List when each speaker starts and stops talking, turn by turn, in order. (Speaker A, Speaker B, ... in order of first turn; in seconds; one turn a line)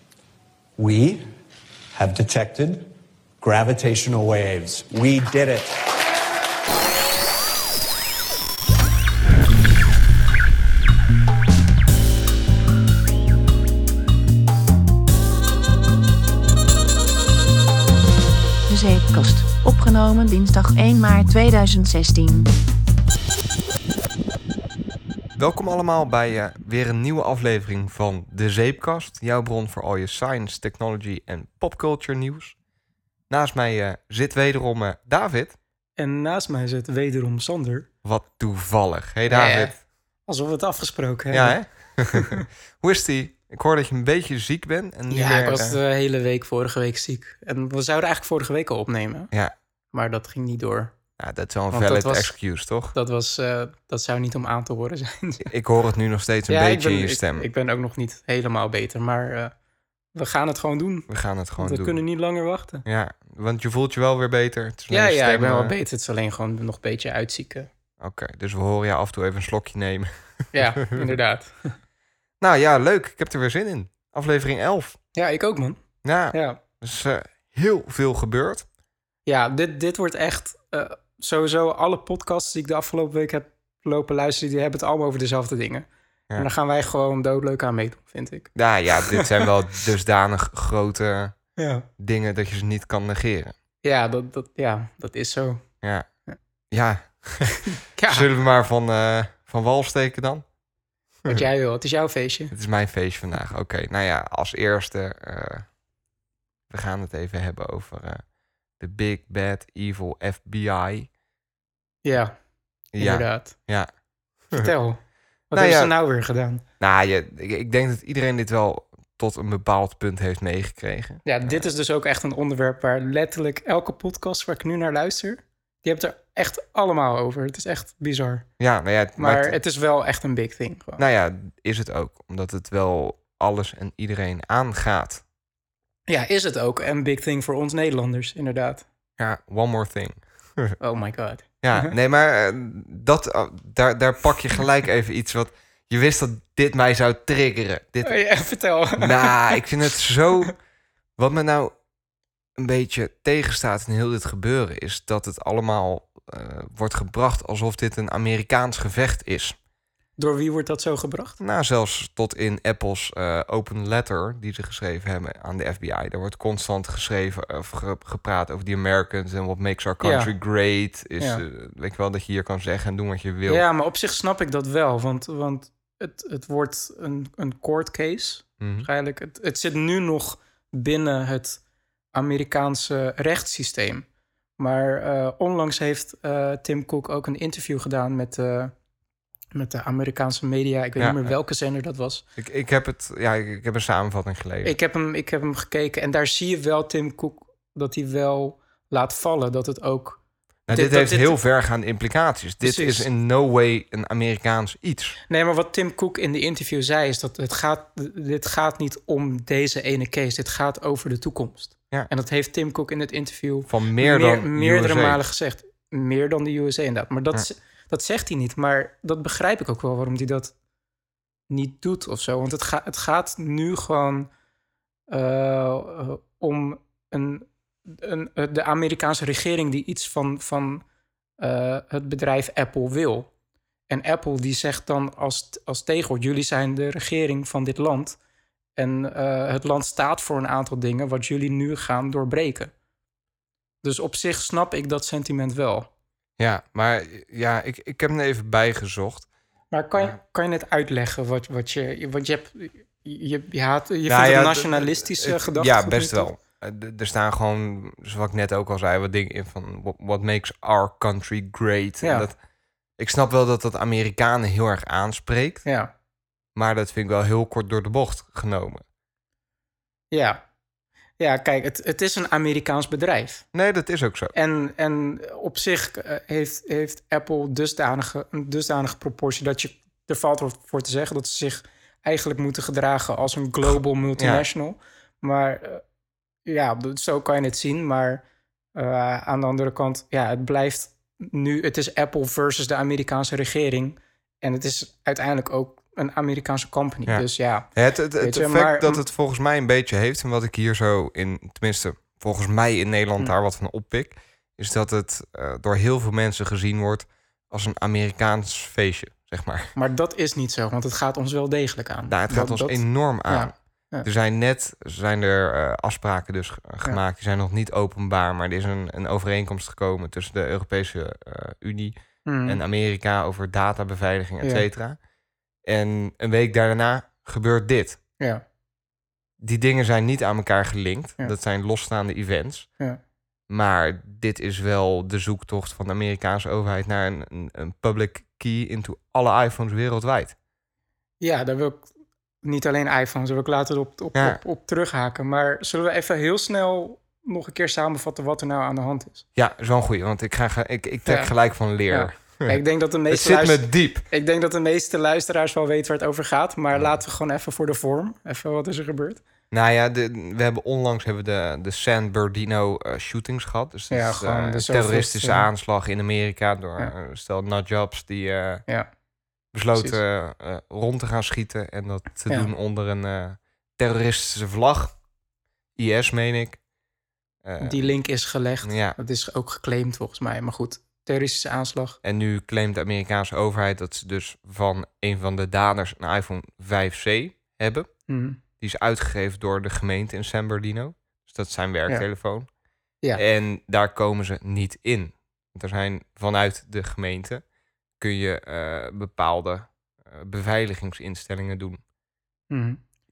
Speaker A: 0.8-1.1
Speaker A: 1.9-2.8
Speaker A: 3.4-5.6
Speaker B: 18.7-22.5
Speaker C: 25.4-32.5
Speaker C: 33.3-35.5
Speaker D: 36.0-37.9
Speaker C: 38.0-39.7
Speaker D: 39.3-42.4
Speaker C: 41.3-45.8
Speaker D: 45.1-49.3
Speaker D: 49.9-50.9
Speaker C: 51.2-52.9
Speaker D: 51.7-52.3
Speaker D: 52.9-55.5
Speaker C: 55.4-57.5
Speaker D: 56.5-59.5
Speaker D: 60.1-62.8
Speaker C: 61.1-62.0
Speaker C: 62.8-65.7
Speaker D: 64.9-67.7
Speaker C: 68.0-71.1
Speaker D: 70.5-71.8
Speaker C: 72.4-75.0
Speaker D: 75.2-76.6
Speaker C: 76.0-78.7
Speaker D: 79.2-89.3
Speaker C: 88.5-91.3
Speaker D: 91.6-91.8
Speaker C: 92.0-93.5
Speaker D: 93.8-95.7
Speaker C: 95.8-96.1
Speaker C: 96.7-100.5
Speaker D: 97.9-98.2
Speaker D: 101.2-102.5
Speaker C: 102.5-105.7
Speaker C: 106.7-108.2
Speaker C: 108.8-111.1
Speaker D: 112.0-112.3
Speaker C: 112.9-113.9
Speaker D: 113.0-113.5
Speaker D: 114.5-116.6
Speaker C: 115.5-115.9
Speaker C: 116.8-121.7
Speaker D: 121.2-128.5
Speaker C: 128.6-129.6
Speaker D: 129.2-131.0
Speaker C: 131.0-135.2
Speaker D: 136.1-138.8
Speaker C: 139.2-140.7
Speaker D: 140.8-141.9
Speaker C: 141.6-148.2
Speaker D: 148.0-149.6
Speaker C: 149.0-150.6
Speaker C: 151.2-151.7
Speaker C: 152.6-159.6
Speaker D: 160.2-161.4
Speaker C: 161.4-173.6
Speaker D: 170.0-170.3
Speaker D: 173.5-181.6
Speaker C: 178.6-178.9
Speaker D: 182.1-184.1
Speaker D: 184.6-188.7
Speaker D: 189.5-192.2
Speaker C: 191.0-191.3
Speaker C: 192.4-194.8
Speaker D: 194.6-201.4
Speaker C: 200.7-205.2
Speaker D: 202.6-203.1
Speaker D: 205.3-220.5
Speaker C: 213.7-215.2
Speaker D: 221.5-224.3
Speaker D: 225.1-230.8
Speaker D: 231.4-233.3
Speaker D: 233.9-238.2
Speaker D: 238.8-242.7
Speaker D: 243.8-245.9
Speaker C: 246.4-249.3
Speaker D: 249.7-256.3
Speaker C: 254.1-262.4
Speaker D: 262.0-262.3
Speaker C: 263.0-265.6
Speaker D: 265.6-265.9
Speaker C: 266.5-268.8
Speaker D: 270.1-270.4
Speaker D: 271.2-273.4
Speaker C: 273.5-274.3
Speaker D: 274.3-285.8
Speaker C: 284.2-284.4
Speaker D: 286.4-288.2
Speaker D: 288.7-299.0
Speaker C: 297.1-309.7
Speaker D: 309.7-314.1
Speaker C: 312.1-325.0
Speaker D: 322.2-322.6
Speaker C: 325.6-328.0
Speaker C: 329.4-332.7
Speaker C: 333.5-340.4
Speaker D: 341.2-341.9
Speaker D: 342.4-349.2
Speaker C: 344.1-344.4
Speaker C: 349.4-354.0
Speaker D: 351.0-351.3
Speaker D: 351.9-359.2
Speaker C: 356.7-357.0
Speaker C: 359.5-368.6
Speaker D: 363.9-365.5
Speaker C: 369.5-374.9
Speaker C: 375.8-376.6
Speaker C: 377.4-377.9
Speaker D: 377.6-382.0
Speaker C: 378.6-379.0
Speaker C: 382.0-388.0
Speaker D: 388.1-388.4
Speaker C: 388.6-392.5
Speaker C: 393.1-397.4
Speaker C: 398.0-401.8
Speaker D: 402.5-402.8